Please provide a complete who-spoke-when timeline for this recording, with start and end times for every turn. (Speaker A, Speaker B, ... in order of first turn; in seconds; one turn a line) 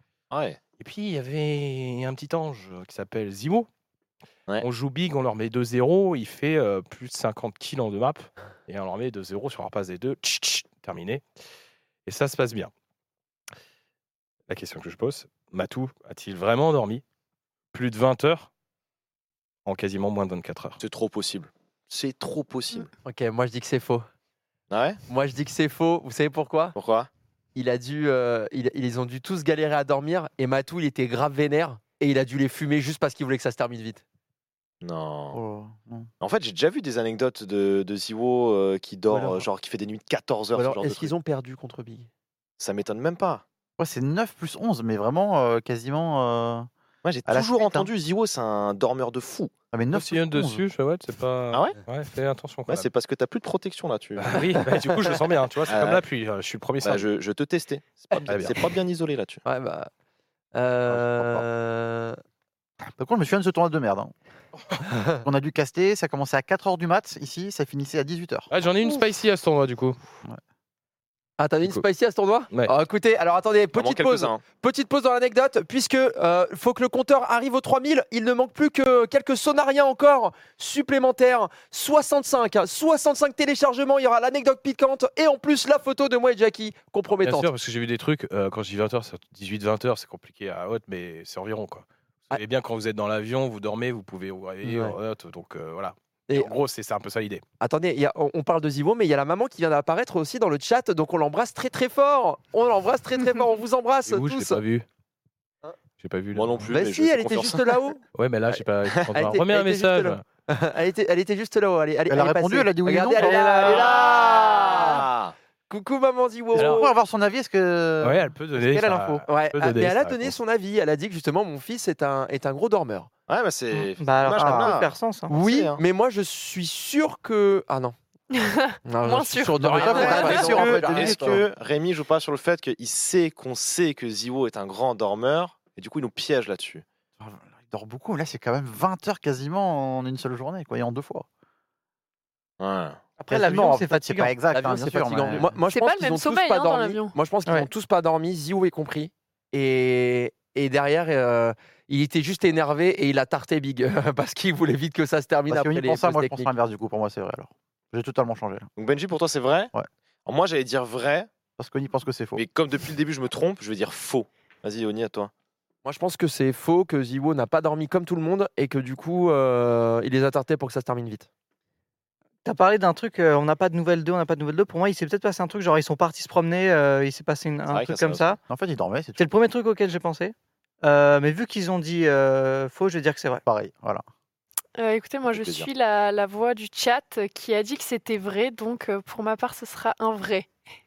Speaker A: 0.3-0.6
Speaker B: 0.8-3.7
Speaker B: 4.6-11.2
Speaker B: 12.1-12.7
Speaker B: 14.5-17.0
Speaker B: 17.7-18.5
Speaker B: 19.6-20.8
Speaker A: 20.8-22.9
Speaker C: 23.0-24.1
Speaker A: 24.7-25.0
Speaker C: 25.1-26.7
Speaker A: 26.7-27.1
Speaker C: 27.5-34.0
Speaker A: 34.8-35.4
Speaker D: 35.3-36.1
Speaker A: 36.2-41.1
Speaker C: 40.5-42.1
Speaker A: 42.6-43.4
Speaker D: 43.8-46.7
Speaker A: 47.0-49.5
Speaker D: 47.2-47.9
Speaker D: 49.7-50.6
Speaker B: 49.9-52.9
Speaker A: 51.5-51.8
Speaker A: 52.7-54.5
Speaker B: 54.2-57.1
Speaker A: 55.7-56.0
Speaker A: 56.8-59.4
Speaker C: 58.1-58.5
Speaker B: 58.3-58.6
Speaker C: 59.4-59.9
Speaker C: 60.5-62.2
Speaker D: 60.9-61.5
Speaker D: 62.8-64.1
Speaker D: 65.2-68.5
Speaker B: 68.5-70.0
Speaker C: 71.4-87.5
Speaker A: 73.7-74.4
Speaker B: 87.2-97.4
Speaker C: 94.6-95.0
Speaker C: 96.3-96.6
Speaker C: 97.6-104.6
Speaker B: 104.0-104.8
Speaker B: 106.0-106.6
Speaker A: 106.3-107.8
Speaker C: 106.7-108.0
Speaker B: 108.1-110.2
Speaker C: 109.1-115.1
Speaker D: 112.1-114.0
Speaker E: 113.2-113.8
Speaker A: 113.6-115.3
Speaker C: 115.7-116.9
Speaker D: 116.5-118.7
Speaker B: 116.5-116.8
Speaker B: 118.0-120.4
Speaker E: 118.6-119.2
Speaker C: 119.3-123.1
Speaker A: 123.3-125.8
Speaker E: 124.0-125.3
Speaker D: 124.3-124.8
Speaker C: 125.3-128.0
Speaker F: 128.3-130.8
Speaker C: 128.8-131.4
Speaker D: 129.6-131.4
Speaker E: 130.0-130.8
Speaker A: 130.1-136.8
Speaker D: 137.2-141.3
Speaker A: 142.6-143.0
Speaker E: 143.2-144.3
Speaker D: 143.3-145.6
Speaker C: 144.5-156.5
Speaker F: 145.7-147.2
Speaker D: 155.5-158.7
Speaker A: 158.8-159.7
Speaker A: 160.2-161.3
Speaker D: 161.6-162.4
Speaker A: 162.3-165.3
Speaker C: 165.8-171.3
Speaker E: 172.4-178.4
Speaker A: 177.7-178.3
Speaker D: 178.5-179.3
Speaker E: 179.2-183.4
Speaker D: 183.4-184.0
Speaker F: 184.8-190.5
Speaker A: 185.3-185.7